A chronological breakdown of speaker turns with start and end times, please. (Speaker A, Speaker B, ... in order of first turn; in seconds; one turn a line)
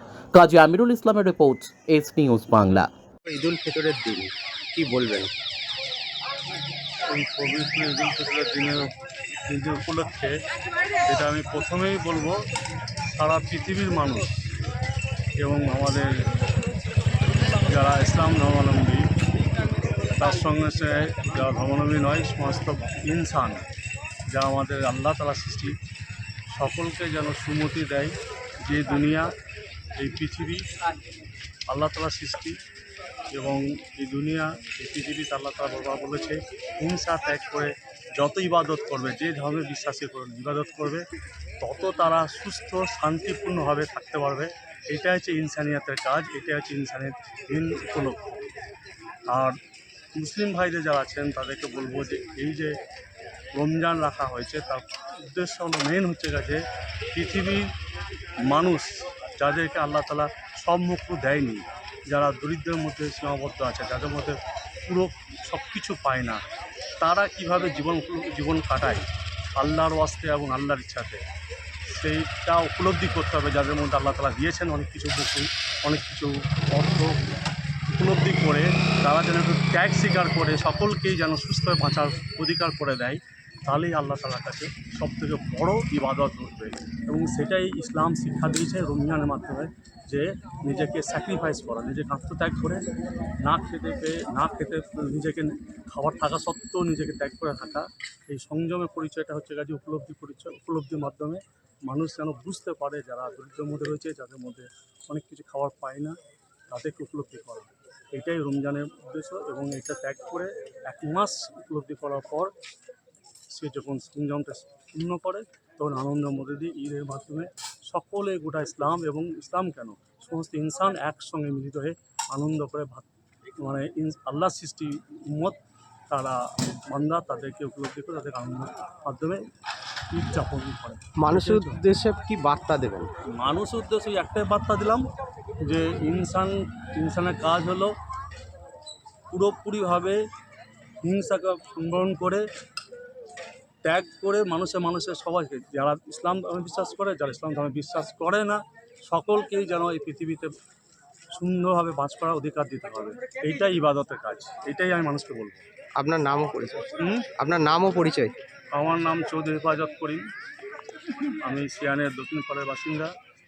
Speaker A: 0.3-2.9
Speaker B: 3.2-5.3
Speaker C: 7.1-8.9
Speaker C: 9.5-10.4
Speaker C: 11.1-12.4
Speaker C: 13.1-14.3
Speaker C: 15.4-16.2
Speaker C: 17.7-19.1
Speaker C: 20.2-23.6
Speaker C: 24.3-25.8
Speaker C: 26.5-29.3
Speaker C: 30.0-30.7
Speaker C: 31.7-32.6
Speaker C: 33.3-41.0
Speaker C: 41.6-48.4
Speaker C: 49.3-49.6
Speaker C: 50.2-52.8
Speaker C: 53.5-56.6
Speaker C: 57.1-57.7
Speaker C: 58.5-66.4
Speaker C: 67.0-71.2
Speaker C: 71.9-77.2
Speaker C: 77.9-92.8
Speaker C: 93.4-106.2
Speaker C: 106.7-112.5
Speaker C: 113.5-123.1
Speaker C: 123.6-125.6
Speaker C: 126.1-129.4
Speaker C: 130.1-131.8
Speaker B: 131.2-133.1
Speaker C: 133.4-135.1
Speaker C: 135.7-137.9
Speaker C: 139.3-140.2
Speaker C: 141.0-142.4
Speaker C: 143.8-150.5
Speaker C: 151.4-155.6
Speaker B: 156.0-156.9
Speaker C: 157.0-157.3
Speaker B: 157.4-158.3
Speaker C: 158.8-160.2
Speaker C: 161.4-163.1